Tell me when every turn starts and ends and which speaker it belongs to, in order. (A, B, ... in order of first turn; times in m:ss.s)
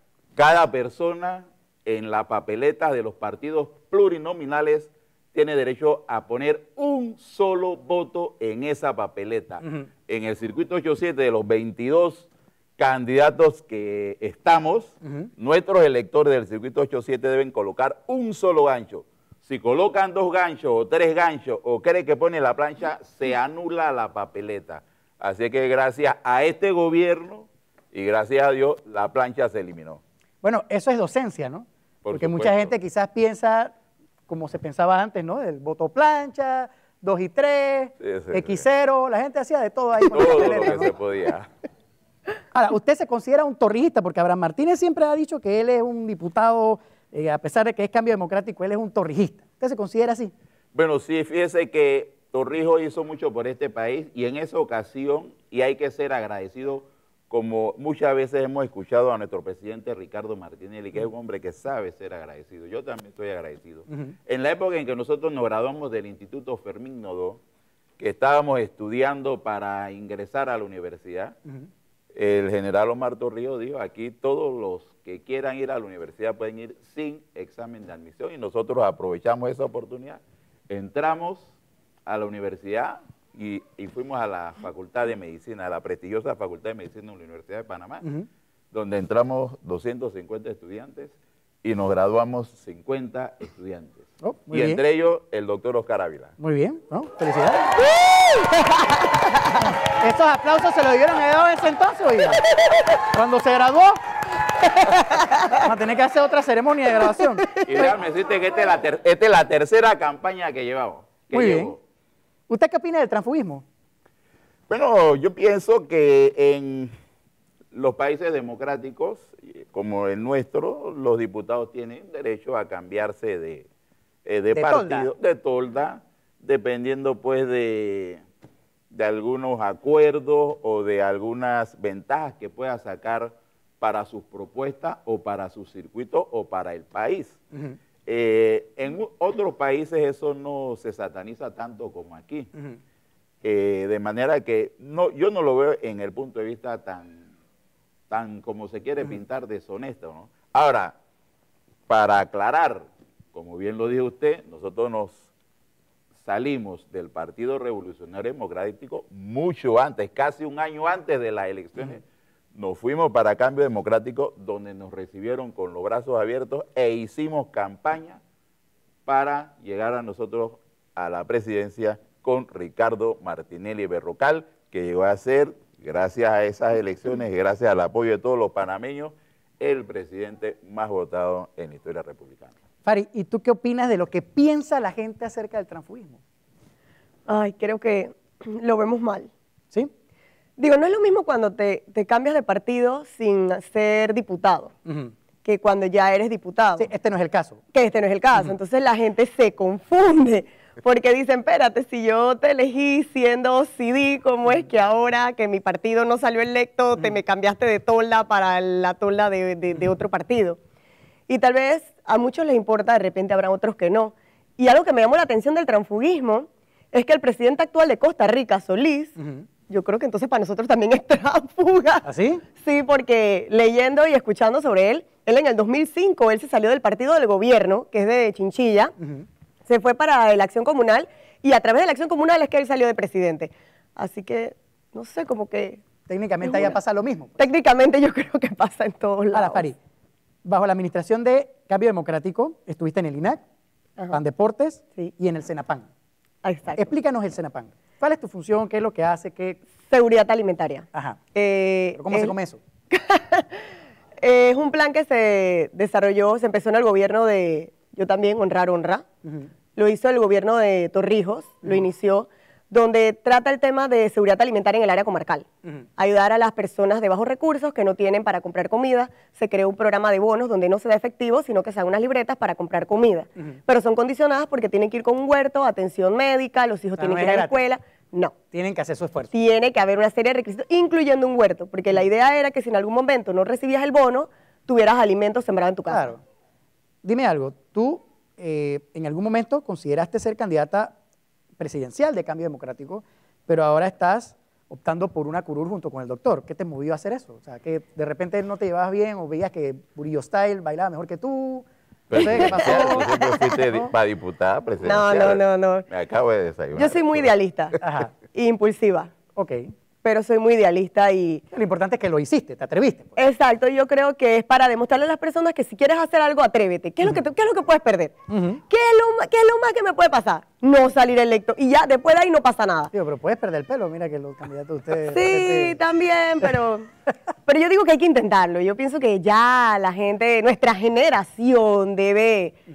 0:00.4-0:30.0 A
0:30.4-0:33.7 B
0:32.0-0:32.8 A
0:34.3-0:40.9 B
0:38.0-0:38.6 A
0:40.1-0:41.5 A
0:42.5-0:50.3 B
0:50.7-1:07.4 A
1:03.9-1:04.1 B
1:08.0-1:11.4 A
1:12.1-1:21.5 A
1:22.1-1:28.1 A
1:28.7-1:36.3 A
1:34.2-1:34.8 B
1:36.4-1:37.8 B
1:39.4-1:42.4 B
1:43.1-1:44.0 B
1:45.3-1:45.6 C
1:45.5-1:47.9 B
1:47.6-1:51.8 A
1:51.3-1:51.8 B
1:52.5-1:53.6 B
1:54.7-1:56.9 A
1:57.7-2:03.7 A
2:04.2-2:08.2 A
2:04.5-2:05.1 B
2:08.9-2:17.4 A
2:18.1-2:22.5 A
2:23.4-2:27.3 A
2:28.1-2:30.9 A
2:31.9-2:35.2 A
2:36.2-2:48.2 A
2:49.1-3:02.5 A
3:02.8-3:06.2 B
3:07.3-3:09.3 C
3:10.6-3:14.7 C
3:14.9-3:15.1 B
3:15.4-3:16.9 C
3:16.8-3:17.6 B
3:17.7-3:30.6 C
3:31.3-3:39.2 C
3:39.2-3:39.4 B
3:39.7-3:48.9 C
3:42.0-3:42.4 B
3:49.0-3:49.2 B
3:49.7-3:55.8 C
3:56.1-3:57.4 B
3:56.4-3:56.8 C
3:57.4-3:59.7 C
3:59.3-3:59.8 B
4:00.4-4:03.4 B
4:04.1-4:05.9 B
4:06.4-4:06.9 C
4:06.8-4:09.6 B
4:09.8-4:12.4 C
4:11.9-4:12.6 B
4:12.9-4:13.7 C
4:14.2-4:19.0 C
4:19.8-4:25.5 C
4:26.0-4:38.4 C
4:37.0-4:37.6 B
4:38.5-4:39.3 B
4:39.3-4:46.1 C
4:45.9-4:46.2 B
4:47.0-4:50.9 B
4:51.6-5:03.9 B
5:02.1-5:07.3 A
5:02.2-5:03.4 C
5:04.8-5:05.9 C
5:06.7-5:07.8 C
5:07.8-5:08.1 B
5:08.3-5:09.1 C
5:09.4-5:09.7 B
5:10.0-5:11.4 C
5:11.5-5:13.1 B
5:13.2-5:18.1 C
5:18.3-5:18.6 B
5:18.7-5:22.9 C
5:22.9-5:25.8 B
5:25.0-5:26.9 C
5:27.4-5:32.6 C